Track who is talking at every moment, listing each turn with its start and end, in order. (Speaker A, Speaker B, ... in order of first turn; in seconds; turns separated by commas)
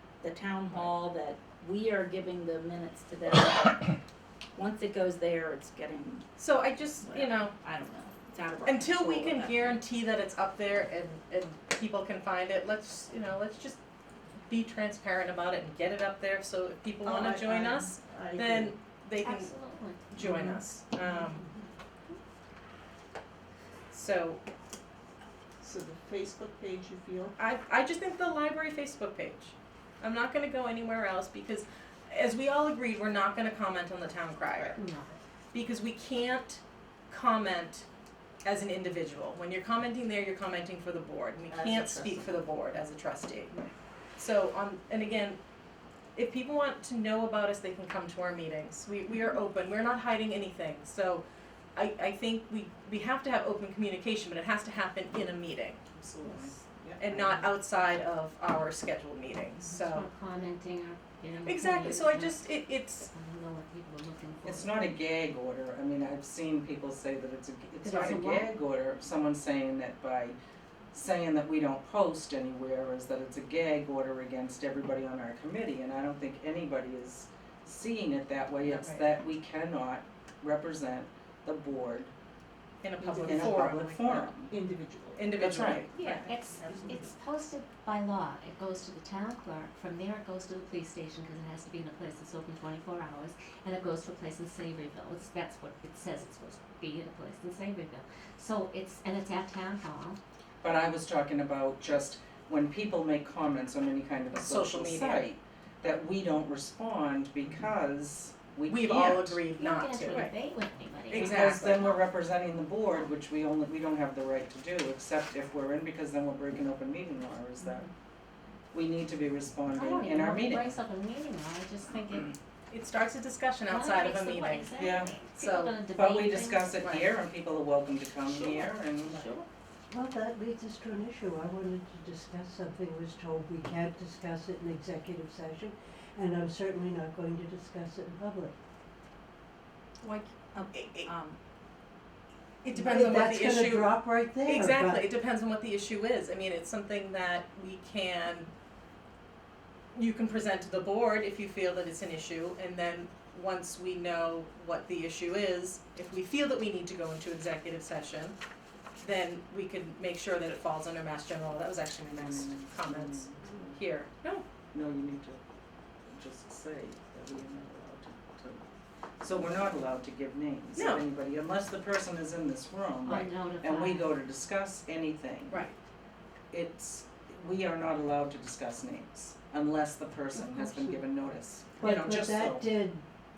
Speaker A: 0.2-4.0, Speaker A: 4.5-6.3, Speaker B: 6.4-7.5, Speaker A: 7.0-9.8, Speaker B: 8.7-13.8, Speaker B: 14.5-19.6, Speaker C: 17.1-18.8, Speaker D: 19.2-20.4, Speaker B: 20.1-21.4, Speaker B: 23.9-24.4, Speaker C: 25.6-27.3, Speaker B: 27.4-34.8, Speaker D: 34.8-35.1, Speaker B: 35.5-37.9, Speaker B: 38.5-43.6, Speaker C: 41.5-42.4, Speaker B: 44.2-45.4, Speaker B: 46.2-51.2, Speaker B: 51.8-55.8, Speaker E: 56.0-56.5, Speaker C: 56.2-57.2, Speaker B: 57.0-60.1, Speaker D: 59.6-64.9, Speaker B: 61.4-63.1, Speaker E: 64.4-70.4, Speaker D: 67.8-68.5, Speaker B: 67.9-68.2, Speaker E: 70.9-82.1, Speaker B: 78.6-79.1, Speaker B: 82.8-84.3, Speaker E: 83.1-84.5, Speaker C: 83.1-83.7, Speaker C: 84.5-85.4, Speaker B: 85.2-86.3, Speaker E: 85.3-85.9, Speaker D: 86.0-100.2, Speaker C: 86.0-87.1, Speaker E: 100.6-109.5, Speaker B: 104.3-105.3, Speaker B: 108.7-110.3, Speaker D: 109.5-111.6, Speaker B: 111.1-112.0, Speaker E: 111.1-117.9, Speaker E: 118.7-120.8, Speaker D: 119.7-122.3, Speaker E: 122.0-122.3, Speaker B: 122.7-125.8, Speaker D: 123.7-126.8, Speaker E: 124.8-125.2, Speaker E: 125.9-129.2, Speaker B: 126.8-127.1, Speaker A: 129.1-129.4, Speaker F: 129.9-138.6, Speaker A: 140.0-141.4, Speaker B: 140.7-141.1, Speaker B: 142.6-148.5, Speaker F: 142.7-145.1, Speaker B: 149.9-158.4, Speaker B: 159.0-164.4, Speaker E: 162.1-163.8, Speaker E: 164.7-165.4, Speaker E: 166.1-168.7, Speaker E: 169.2-175.7, Speaker B: 170.8-171.0, Speaker D: 173.0-174.2, Speaker B: 175.5-175.8, Speaker E: 176.5-182.7, Speaker F: 180.3-181.1, Speaker F: 181.8-183.1, Speaker B: 181.8-182.2